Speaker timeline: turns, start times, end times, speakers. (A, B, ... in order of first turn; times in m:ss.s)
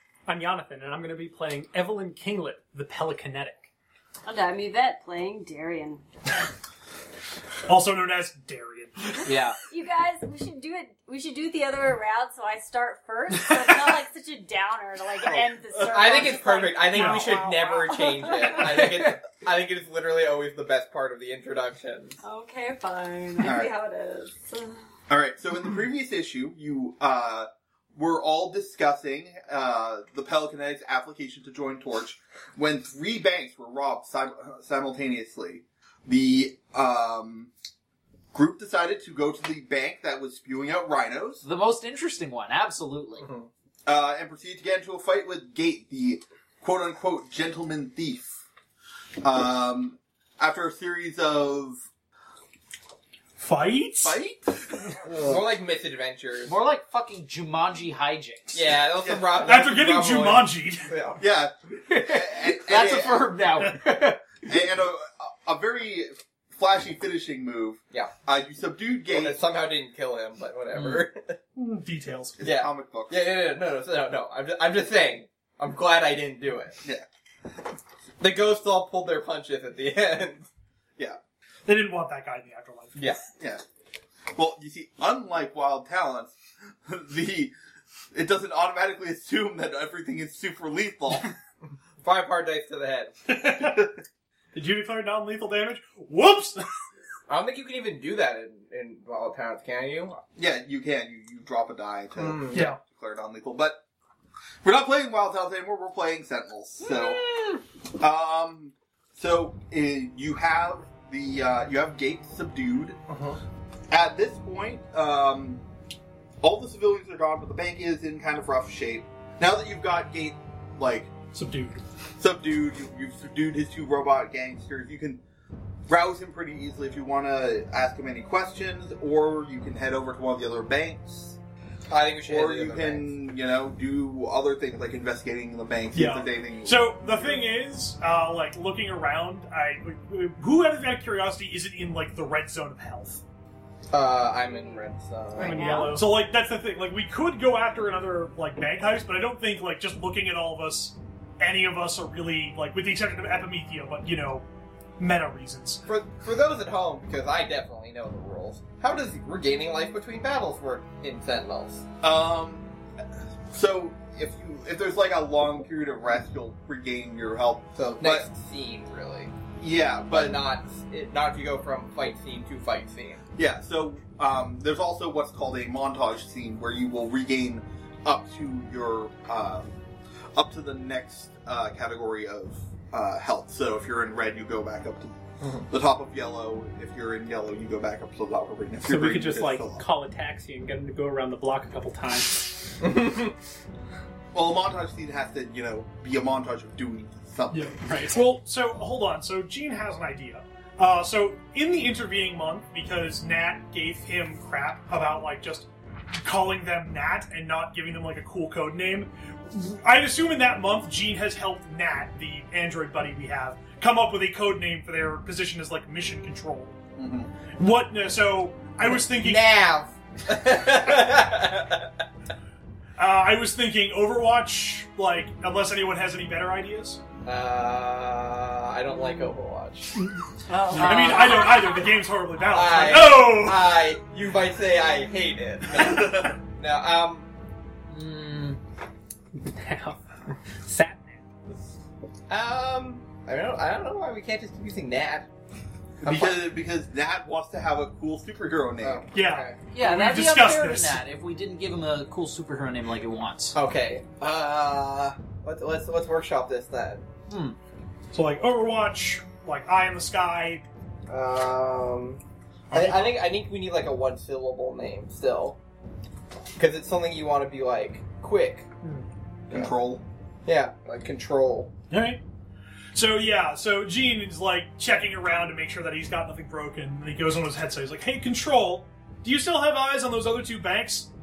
0:00.3-0:03.7 A
0:04.3-0:06.0 B
0:07.7-0:09.2 C
0:09.2-0:18.9 B
0:09.3-0:09.6 D
0:15.9-0:22.2 E
0:16.9-0:17.7 C
0:22.2-0:24.8 B
0:23.4-0:23.8 F
0:25.1-0:37.5 F
0:38.3-0:41.4 F
0:41.4-0:43.3 D
0:43.2-0:43.5 E
0:43.8-0:48.4 F
0:49.2-0:51.8 F
0:53.4-0:54.2 C
0:54.0-0:55.3 F
0:55.1-0:56.5 E
0:56.5-0:58.7 D
0:58.5-1:01.2 E
0:59.4-1:00.9 C
1:01.2-1:03.4 F
1:01.8-1:04.4 D
1:04.4-1:09.4 F
1:09.1-1:11.4 E
1:10.8-1:11.1 D
1:11.5-1:12.4 C
1:12.4-1:13.3 F
1:12.4-1:16.8 E
1:18.2-1:20.5 E
1:21.7-1:23.0 C
1:23.0-1:23.2 E
1:24.3-1:27.5 F
1:28.1-1:31.3 F
1:32.0-1:33.4 E
1:33.3-1:33.9 C
1:34.5-1:36.7 C
1:37.3-1:40.2 E
1:40.4-1:43.8 F
1:42.2-1:42.7 E
1:42.5-1:42.8 C
1:44.6-1:47.3 F
1:48.0-1:53.0 F
1:53.1-1:53.4 E
1:53.9-1:55.6 F
1:56.4-2:01.1 F
2:01.3-2:01.8 C
2:02.2-2:05.2 F
2:05.9-2:11.4 F
2:11.9-2:13.1 E
2:12.2-2:17.4 F
2:15.9-2:23.2 C
2:23.9-2:25.9 E
2:25.4-2:26.0 B
2:25.4-2:34.4 C
2:35.0-2:35.8 C
2:35.8-2:41.8 E
2:42.0-2:42.6 F
2:43.5-2:48.3 F
2:47.8-2:49.3 E
2:49.6-2:50.4 F
2:50.1-2:53.2 E
2:53.4-2:59.8 F
3:00.3-3:05.2 F
3:05.4-3:05.7 E
3:05.7-3:09.8 F
3:08.9-3:12.7 A
3:12.8-3:13.3 E
3:14.3-3:17.8 F
3:17.5-3:25.7 C
3:17.8-3:18.2 A
3:26.2-3:36.8 C
3:37.0-3:37.3 F
3:37.6-3:39.5 C
3:38.8-3:41.9 E
3:43.0-3:47.0 C
3:47.2-3:50.0 E
3:50.5-3:51.9 B
3:50.7-3:53.7 C
3:50.8-3:51.2 D
3:52.5-3:57.3 E
3:55.8-3:56.1 F
3:57.9-3:58.6 D
3:59.3-4:01.2 A
4:02.3-4:05.3 E
4:06.0-4:09.0 F
4:06.0-4:06.4 E
4:08.8-4:09.6 E
4:09.1-4:11.0 C
4:09.7-4:13.6 D
4:13.5-4:17.0 E
4:17.3-4:17.6 D
4:18.1-4:20.6 C
4:21.1-4:25.6 E
4:22.7-4:23.1 C
4:26.6-4:28.7 E
4:29.5-4:30.0 F
4:30.4-4:31.7 E
4:31.9-4:32.2 C
4:32.9-4:41.1 C